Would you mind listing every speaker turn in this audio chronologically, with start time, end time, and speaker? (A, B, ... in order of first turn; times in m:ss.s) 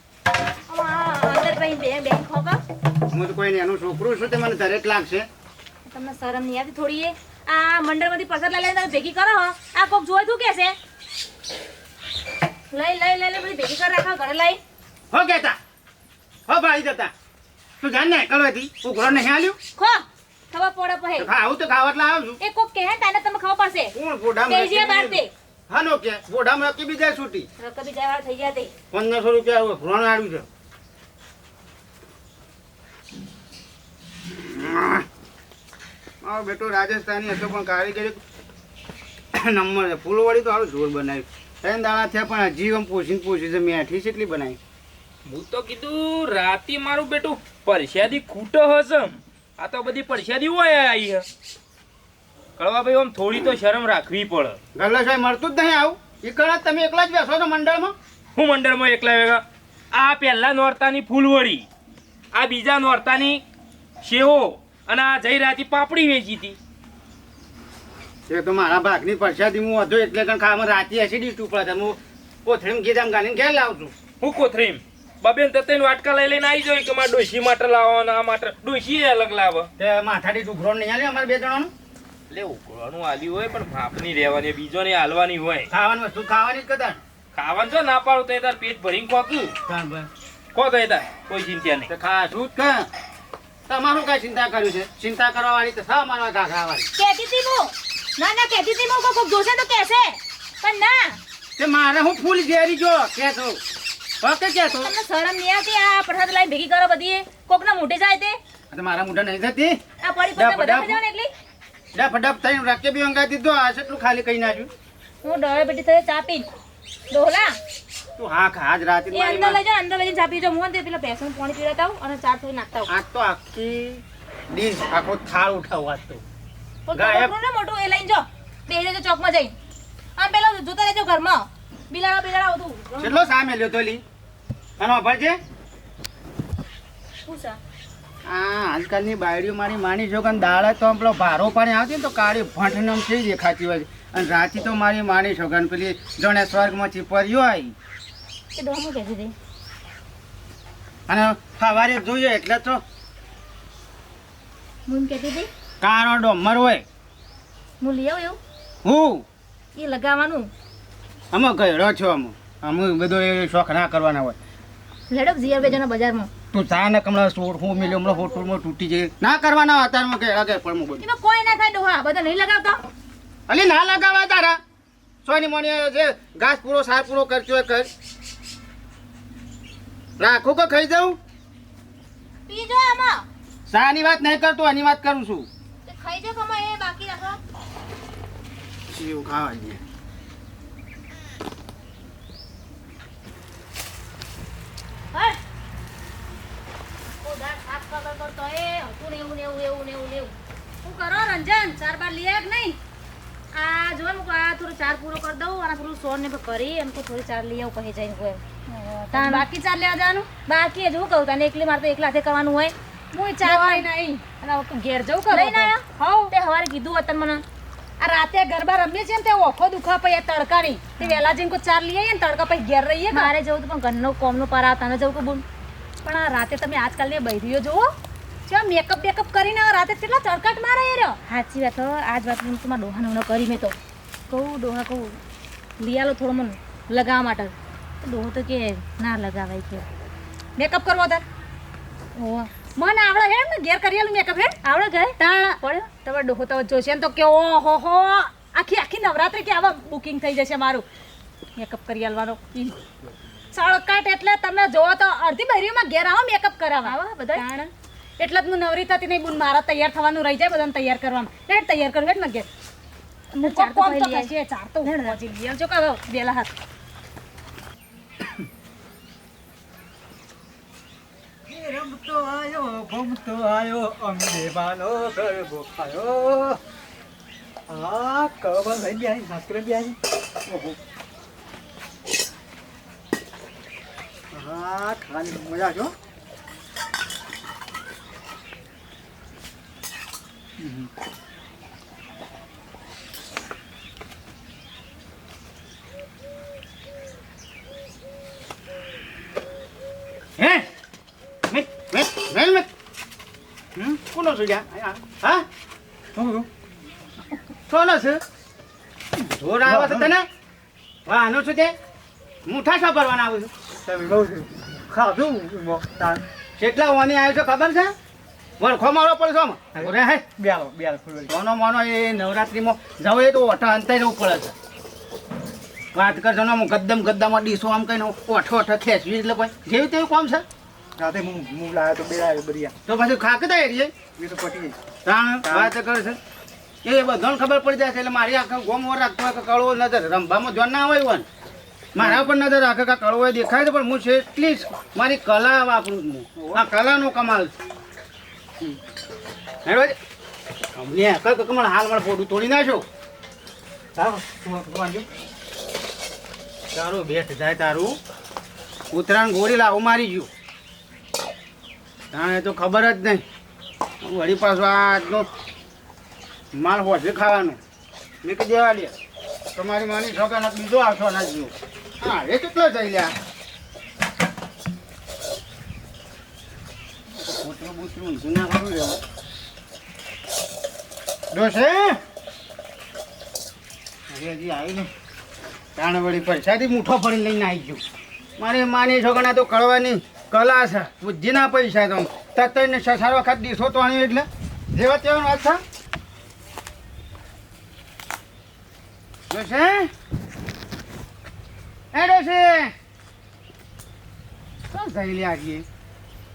0:00.7-0:02.6 A
0:03.1-0:05.3 B
0:05.9-0:10.8 A
0:12.7-0:14.6 A
0:15.1-0:15.6 B
0:16.5-0:17.1 B
0:17.8-0:19.6 B
0:19.8-0:21.3 A
0:21.2-0:22.4 B
0:22.4-0:25.3 A
0:24.0-0:27.5 B
0:27.6-0:28.7 A
0:28.9-0:30.5 B
0:34.4-0:35.0 B
0:36.2-0:38.2 B
0:39.3-0:44.6 B
0:45.2-0:51.3 C
0:52.6-0:54.6 C
0:54.8-0:57.9 B
0:58.4-1:01.6 C
1:02.3-1:03.4 C
1:04.0-1:06.6 C
1:08.3-1:13.9 B
1:14.2-1:19.7 C
1:19.8-1:21.7 B
1:22.3-1:25.7 C
1:25.7-1:27.0 B
1:27.3-1:29.5 C
1:29.7-1:30.1 B
1:30.6-1:31.9 C
1:31.9-1:32.9 B
1:33.7-1:36.9 B
1:37.0-1:41.2 A
1:41.6-1:43.6 B
1:44.2-1:44.9 B
1:44.7-1:48.4 A
1:48.7-1:49.8 B
1:50.0-1:51.3 A
1:50.4-1:51.0 B
1:51.9-1:54.7 B
1:55.2-1:56.5 A
1:57.1-1:57.6 A
1:58.2-1:59.6 B
1:59.1-2:02.9 A
2:02.9-2:06.2 B
2:06.8-2:09.5 A
2:06.9-2:07.3 B
2:10.2-2:13.2 A
2:13.0-2:14.0 B
2:14.8-2:15.4 B
2:17.2-2:17.6 A
2:18.2-2:27.8 B
2:28.6-2:29.3 A
2:31.1-2:32.8 B
2:34.8-2:35.5 A
2:35.8-2:36.8 B
2:37.8-2:38.4 A
2:38.8-2:39.2 B
2:39.8-2:40.5 A
2:41.3-2:44.4 B
2:45.1-2:46.3 A
2:46.5-2:51.0 B
2:51.0-2:52.8 A
2:53.5-2:54.6 B
2:55.2-2:57.9 B
3:00.2-3:01.2 B
3:02.5-3:03.2 A
3:03.7-3:05.5 B
3:05.8-3:07.4 A
3:08.9-3:09.8 B
3:17.2-3:20.3 A
3:20.8-3:22.8 D
3:23.5-3:28.4 A
3:28.7-3:30.3 D
3:29.1-3:29.5 A
3:30.3-3:32.8 A
3:33.1-3:36.3 D
3:33.4-3:33.9 A
3:35.3-3:37.4 A
3:38.0-3:43.3 D
3:43.1-3:45.4 A
3:46.0-3:47.9 D
3:48.5-3:51.2 D
3:51.3-3:53.8 A
3:54.3-3:55.2 A
3:55.8-3:59.9 A
4:00.6-4:01.2 D
4:02.2-4:02.5 A
4:02.8-4:04.6 D
4:04.6-4:05.9 A
4:05.2-4:10.8 D
4:11.6-4:12.8 A
4:12.0-4:12.6 D
4:13.5-4:17.6 D
4:16.8-4:17.7 A
4:18.2-4:22.5 D
4:23.3-4:24.3 A
4:23.4-4:26.5 D
4:24.8-4:25.2 A
4:31.5-4:36.6 E
4:37.7-4:40.0 E
4:40.5-4:40.8 E
4:44.3-4:45.9 E
5:00.4-5:00.7 B
5:01.5-5:02.7 B
5:03.9-5:05.4 B
5:06.2-5:06.5 E
5:07.7-5:08.2 B
5:09.4-5:10.3 B
5:09.6-5:10.1 E
5:11.1-5:11.8 B
5:12.4-5:13.5 B
5:13.9-5:16.2 E
5:16.6-5:17.9 B
5:18.6-5:20.2 B
5:19.8-5:21.3 E
5:21.3-5:24.6 B
5:25.9-5:30.4 B
5:31.0-5:32.7 E
5:32.9-5:33.9 B
5:34.2-5:34.8 E
5:35.0-5:36.2 B
5:35.4-5:35.7 E
5:36.8-5:41.2 B
5:41.9-5:47.5 B
5:42.0-5:42.3 E
5:49.6-5:50.0 B
5:50.8-5:52.8 B
5:54.0-5:55.1 E
5:56.7-5:58.0 B
5:58.9-6:00.3 B
6:02.1-6:03.2 B
6:04.0-6:05.3 B
6:06.5-6:07.6 B
6:08.2-6:08.9 B
6:09.6-6:13.1 B
6:17.1-6:19.0 B
6:21.3-6:22.0 B
6:24.1-6:24.9 B
6:25.8-6:27.8 B
6:28.4-6:35.6 B
6:39.3-6:39.9 B
6:41.9-6:42.7 B
6:44.7-6:45.6 B